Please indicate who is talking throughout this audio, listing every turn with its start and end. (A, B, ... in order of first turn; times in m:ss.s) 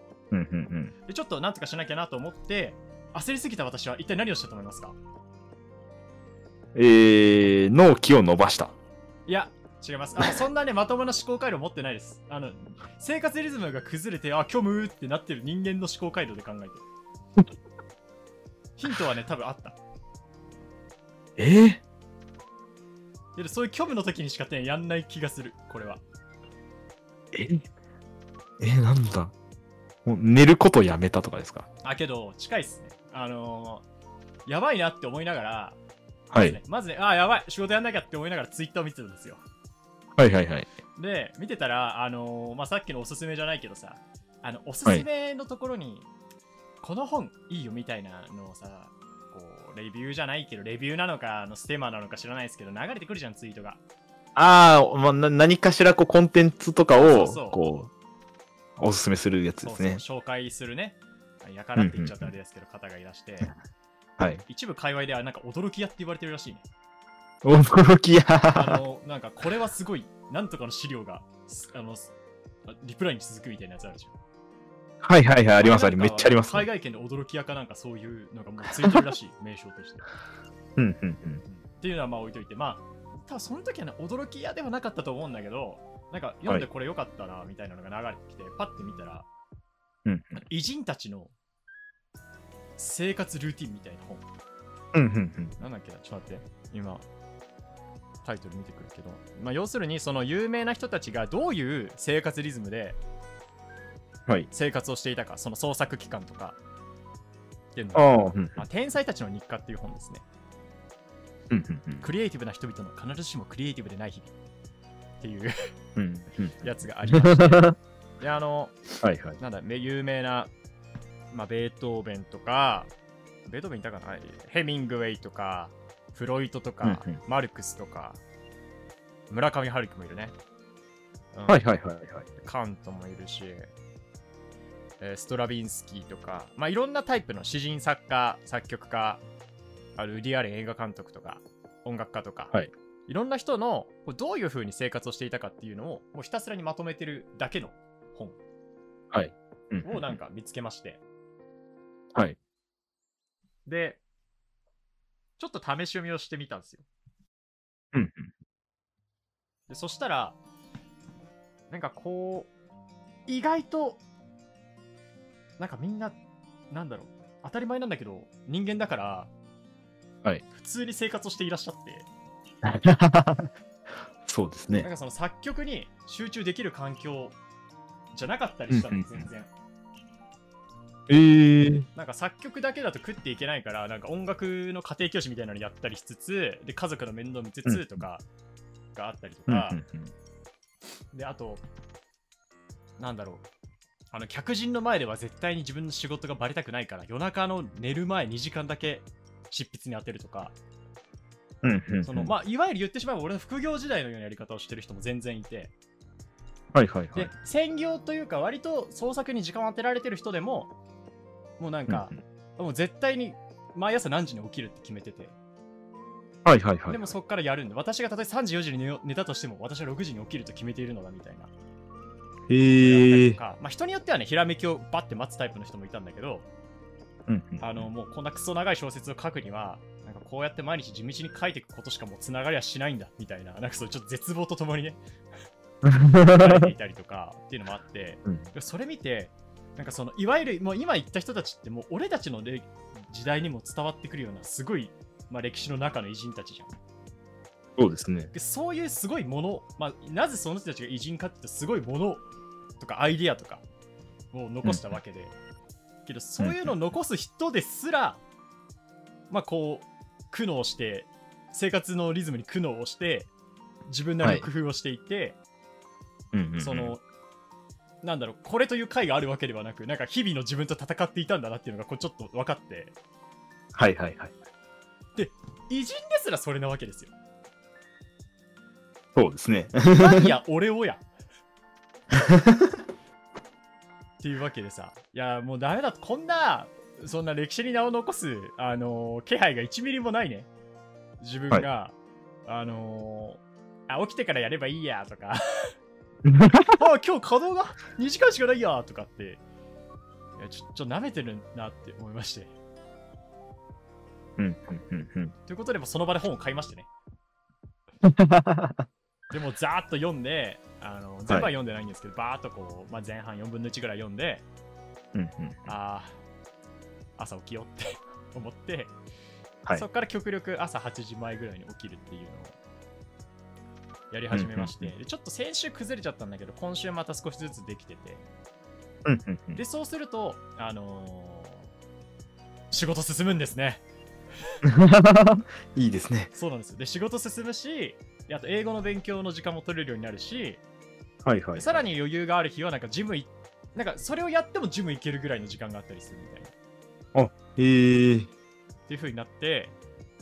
0:00.3-0:00.9 A
0:01.1-0:05.0 B
0:06.7-0:08.7 A
0:09.3-0:16.8 B
0:18.8-0:19.8 B
0:21.4-0:21.8 A
0:23.4-0:26.0 B
0:27.3-0:27.6 A
0:28.6-0:29.3 A
0:30.0-0:31.7 A
0:31.8-0:33.8 B
0:34.4-0:35.8 B
0:36.3-0:36.6 A
0:36.4-0:39.4 B
0:40.2-0:40.7 A
0:41.0-0:46.1 B
0:46.8-0:53.8 B
0:54.4-0:57.9 A
0:57.0-0:57.6 B
0:58.8-1:00.0 A
0:59.6-1:03.5 B
1:01.8-1:02.3 A
1:04.2-1:04.4 A
1:04.5-1:06.6 B
1:07.4-1:08.8 A
1:08.5-1:12.1 B
1:12.6-1:14.1 B
1:15.0-1:16.6 A
1:15.6-1:20.0 B
1:20.8-1:21.4 A
1:21.5-1:29.3 B
1:30.0-1:30.4 A
1:30.4-1:31.3 B
1:32.8-1:34.2 B
1:34.9-1:35.5 A
1:35.6-1:37.0 B
1:38.2-1:43.0 B
1:44.5-1:46.6 B
1:47.7-1:50.2 B
1:48.0-1:48.6 A
1:51.5-1:52.1 A
1:52.0-1:54.3 B
1:55.2-1:55.5 B
1:56.0-1:57.7 A
1:56.6-1:58.8 B
1:59.0-1:59.4 A
1:59.4-2:00.5 B
2:01.3-2:02.9 B
2:03.5-2:08.2 B
2:06.8-2:07.2 A
2:09.3-2:10.3 B
2:11.3-2:11.6 B
2:11.5-2:12.2 A
2:12.4-2:13.7 B
2:15.0-2:19.2 B
2:20.0-2:22.5 B
2:23.1-2:28.4 B
2:29.1-2:30.2 A
2:29.8-2:31.0 B
2:33.6-2:34.0 B
2:35.4-2:36.8 B
2:37.9-2:38.3 A
2:39.7-2:40.4 B
2:41.7-2:42.5 B
2:43.3-2:44.0 B
2:45.6-2:46.2 B
2:46.7-2:49.3 B
2:50.5-2:52.1 B
2:52.6-2:53.5 A
2:54.2-2:54.9 A
2:54.7-2:57.4 B
2:58.1-2:59.5 B
2:58.7-2:59.2 A
3:01.1-3:01.9 A
3:01.9-3:08.2 B
3:07.6-3:08.0 A
3:08.9-3:09.8 B
3:09.5-3:10.1 A
3:11.1-3:11.6 B
3:13.0-3:13.4 B
3:14.1-3:20.6 B
3:21.6-3:22.3 A
3:22.0-3:25.7 B
3:26.7-3:27.3 A
3:27.1-3:30.7 B
3:31.6-3:35.4 B
3:31.9-3:32.1 A
3:36.4-3:37.1 A
3:36.9-3:41.5 B
3:42.5-3:43.4 A
3:42.8-3:46.5 B
3:47.3-3:47.9 A
3:47.6-3:55.0 B
3:55.8-3:56.7 A
3:56.2-4:06.7 B
4:07.8-4:08.3 A
4:08.3-4:12.2 B
4:12.8-4:13.6 B
4:14.3-4:15.3 B
4:16.0-4:18.2 B
4:16.4-4:16.7 A
4:19.3-4:23.3 B
4:23.9-4:25.4 B
4:26.3-4:27.0 A
4:26.6-4:27.0 B
4:28.0-4:33.0 B
4:33.7-4:34.3 A
4:35.2-4:37.1 B
4:39.1-4:40.3 A
4:39.9-4:41.0 B
4:42.1-4:42.7 A
4:44.2-4:50.5 B
4:51.2-4:55.7 B
4:56.2-4:56.8 A
4:56.7-4:59.4 B
5:00.4-5:02.5 B
5:04.4-5:05.3 A
5:05.5-5:06.9 B
5:08.0-5:08.8 A
5:09.3-5:14.4 B
5:15.1-5:15.7 A
5:15.6-5:16.2 B
5:17.2-5:19.0 B
5:19.7-5:22.6 B
5:24.1-5:28.2 B
5:24.3-5:24.9 A
5:29.0-5:29.6 A
5:29.5-5:31.7 B
5:32.7-5:33.8 B
5:34.6-5:36.3 A
5:36.3-5:40.6 B
5:41.2-5:41.8 A
5:41.5-5:46.5 B
5:47.1-5:48.3 A
5:48.9-5:49.7 B